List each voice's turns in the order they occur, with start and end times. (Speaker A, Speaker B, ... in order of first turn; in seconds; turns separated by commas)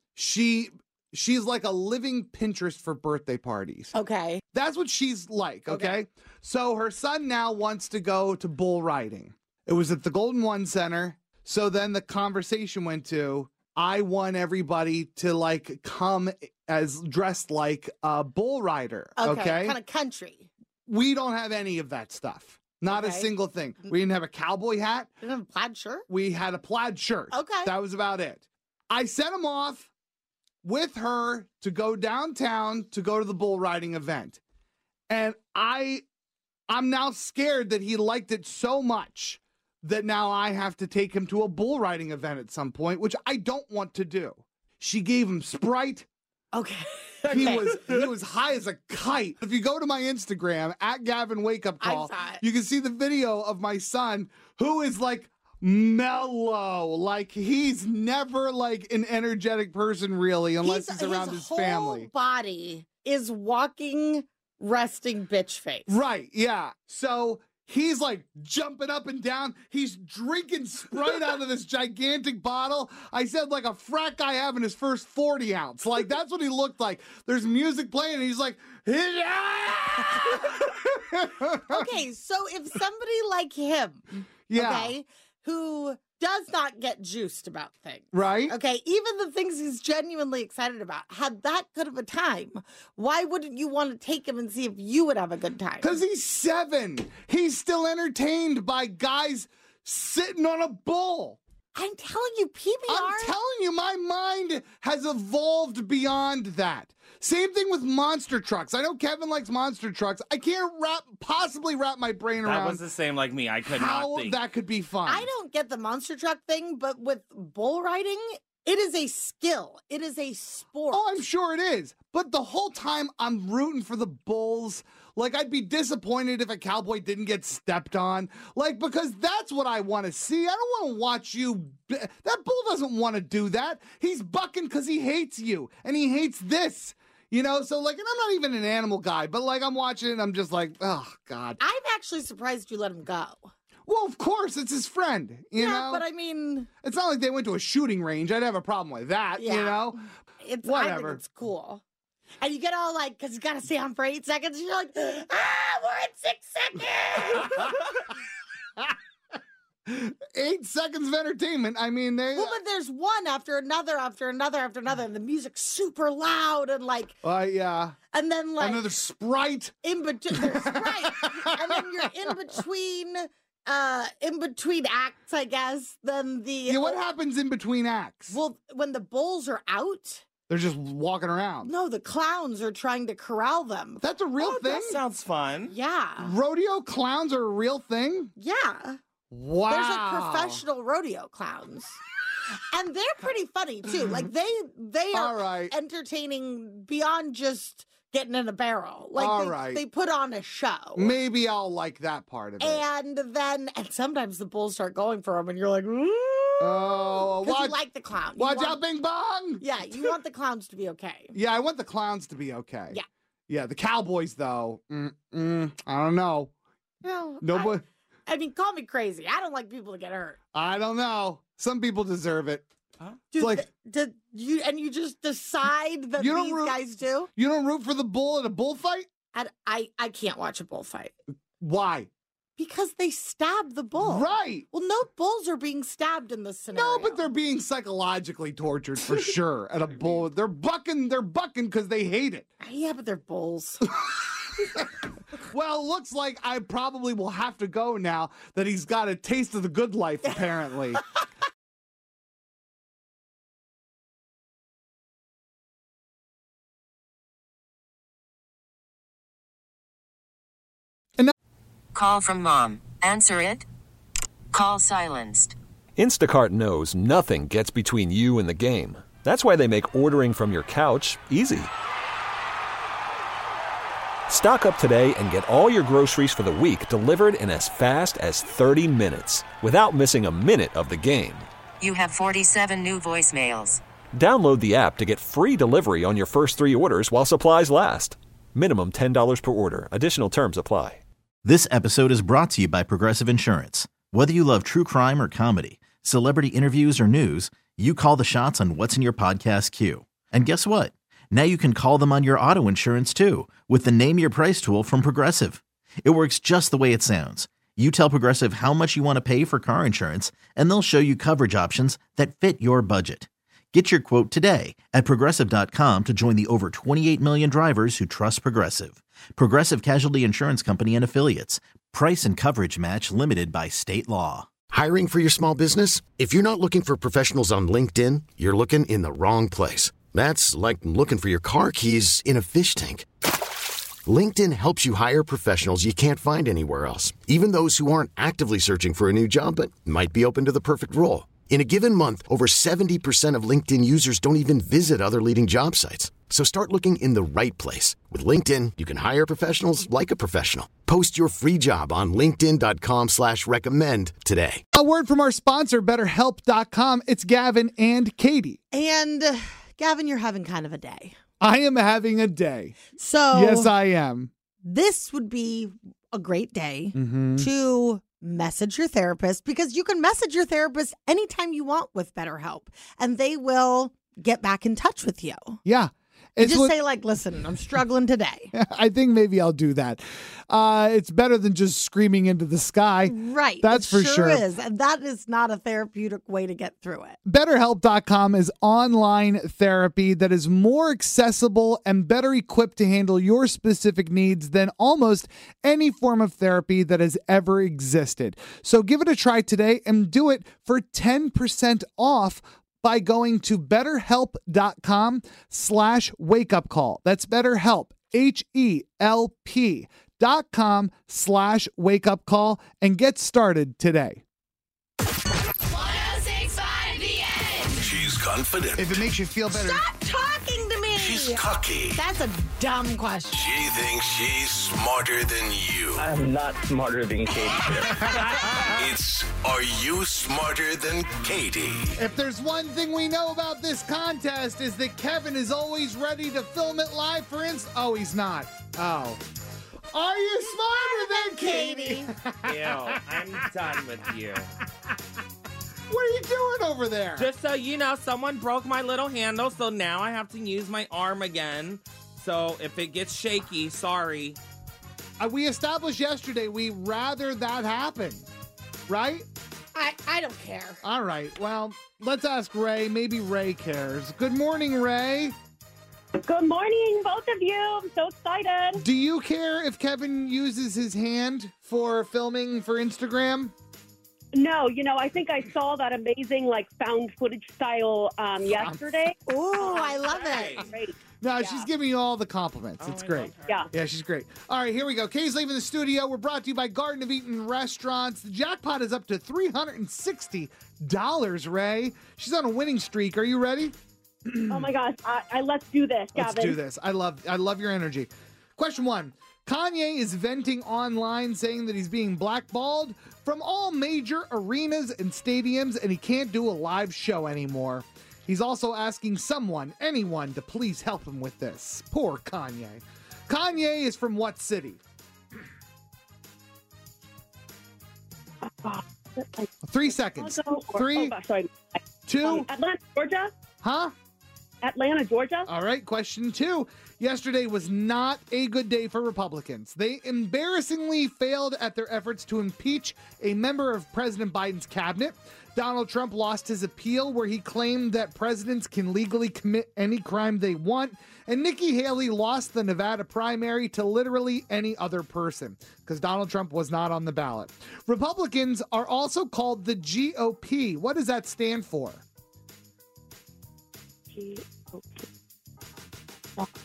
Speaker A: 0.1-3.9, Speaker B: 3.9-4.4, Speaker A: 4.5-19.8, Speaker B: 5.7-6.0, Speaker B: 19.2-20.5, Speaker A: 20.9-25.1, Speaker B: 22.9-23.3, Speaker B: 25.2-26.1, Speaker A: 26.1-29.9, Speaker B: 27.3-27.7, Speaker A: 30.6-34.4, Speaker A: 35.1-36.0, Speaker A: 36.7-46.1, Speaker B: 46.5-48.0, Speaker A: 47.3-62.1, Speaker B: 51.8-52.4, Speaker B: 60.6-65.9, Speaker A: 65.9-81.9, Speaker B: 81.7-96.0, Speaker A: 84.5-84.9, Speaker A: 88.1-88.5, Speaker A: 95.8-101.4, Speaker B: 101.8-103.3, Speaker A: 102.9-112.8, Speaker C: 112.4-114.4, Speaker A: 113.6-115.3, Speaker B: 115.1-121.2, Speaker A: 120.9-141.6, Speaker B: 141.6-143.5, Speaker A: 143.9-146.1, Speaker B: 145.6-146.7, Speaker A: 146.8-150.0, Speaker B: 149.4-151.8, Speaker A: 150.6-151.2, Speaker B: 152.4-157.8, Speaker A: 157.3-157.7, Speaker A: 159.9-162.6, Speaker B: 162.3-167.2, Speaker A: 167.2-168.0, Speaker B: 168.1-168.9, Speaker A: 168.6-169.8, Speaker B: 169.8-177.0, Speaker A: 170.3-172.5, Speaker A: 176.7-178.4, Speaker B: 178.3-180.2, Speaker A: 180.5-181.7, Speaker B: 181.6-185.1, Speaker A: 184.0-185.0, Speaker C: 184.9-185.7, Speaker B: 185.7-186.3, Speaker A: 186.2-188.3, Speaker B: 188.4-189.0, Speaker A: 189.3-190.6, Speaker B: 189.7-192.0, Speaker B: 192.7-201.2, Speaker A: 195.1-195.7, Speaker A: 199.2-199.8, Speaker A: 201.0-202.8, Speaker B: 202.6-208.8, Speaker A: 206.6-207.8, Speaker A: 208.4-210.1, Speaker B: 209.6-211.3, Speaker A: 211.3-213.0, Speaker A: 213.5-216.5, Speaker B: 217.0-220.4, Speaker A: 217.4-217.8, Speaker A: 220.5-222.7, Speaker B: 223.3-227.3, Speaker A: 223.4-223.7, Speaker A: 226.2-226.8, Speaker A: 227.3-229.1, Speaker B: 229.3-231.1, Speaker A: 231.6-232.1, Speaker B: 232.6-237.2, Speaker A: 234.0-234.7, Speaker A: 236.7-242.5, Speaker B: 242.6-243.9, Speaker A: 245.4-251.0, Speaker D: 261.9-263.6, Speaker D: 264.5-265.6, Speaker E: 266.0-271.7, Speaker E: 274.3-281.5, Speaker D: 281.8-283.8, Speaker E: 284.1-291.0, Speaker F: 291.4-324.5, Speaker G: 324.7-333.1, Speaker G: 334.1-354.6, Speaker A: 354.7-358.6, Speaker B: 358.7-361.2, Speaker A: 361.4-362.8, Speaker B: 363.0-363.7, Speaker A: 363.3-364.3, Speaker B: 364.6-375.6, Speaker A: 366.9-367.5, Speaker A: 375.6-376.8, Speaker B: 376.4-378.5, Speaker A: 378.5-384.4, Speaker B: 383.1-387.2, Speaker A: 387.2-414.2, Speaker B: 415.8-417.6, Speaker H: 417.7-419.1, Speaker A: 418.8-419.8, Speaker B: 419.5-421.4, Speaker H: 421.0-422.0, Speaker B: 421.9-423.4, Speaker H: 423.3-426.0, Speaker I: 426.0-428.2, Speaker A: 428.1-428.7, Speaker H: 428.7-432.0, Speaker A: 432.0-439.2, Speaker A: 439.9-443.0, Speaker B: 440.8-442.1, Speaker C: 442.4-444.5, Speaker A: 445.9-447.3, Speaker C: 447.2-454.4, Speaker A: 455.2-458.3, Speaker A: 458.9-459.3, Speaker B: 459.8-460.8, Speaker A: 460.8-465.4, Speaker J: 466.2-468.8, Speaker A: 468.8-473.5, Speaker J: 474.3-479.2, Speaker A: 478.5-478.8, Speaker B: 479.3-480.6, Speaker C: 479.6-480.7, Speaker J: 480.6-481.7, Speaker A: 481.2-493.8, Speaker C: 482.8-483.6, Speaker A: 494.3-494.7, Speaker J: 494.5-496.6, Speaker A: 496.2-514.8, Speaker J: 518.5-519.5, Speaker A: 519.6-521.1, Speaker J: 520.2-521.5, Speaker A: 522.1-522.5, Speaker J: 522.2-523.3, Speaker A: 523.6-523.9, Speaker J: 524.6-525.5, Speaker A: 525.5-552.0, Speaker J: 554.1-555.0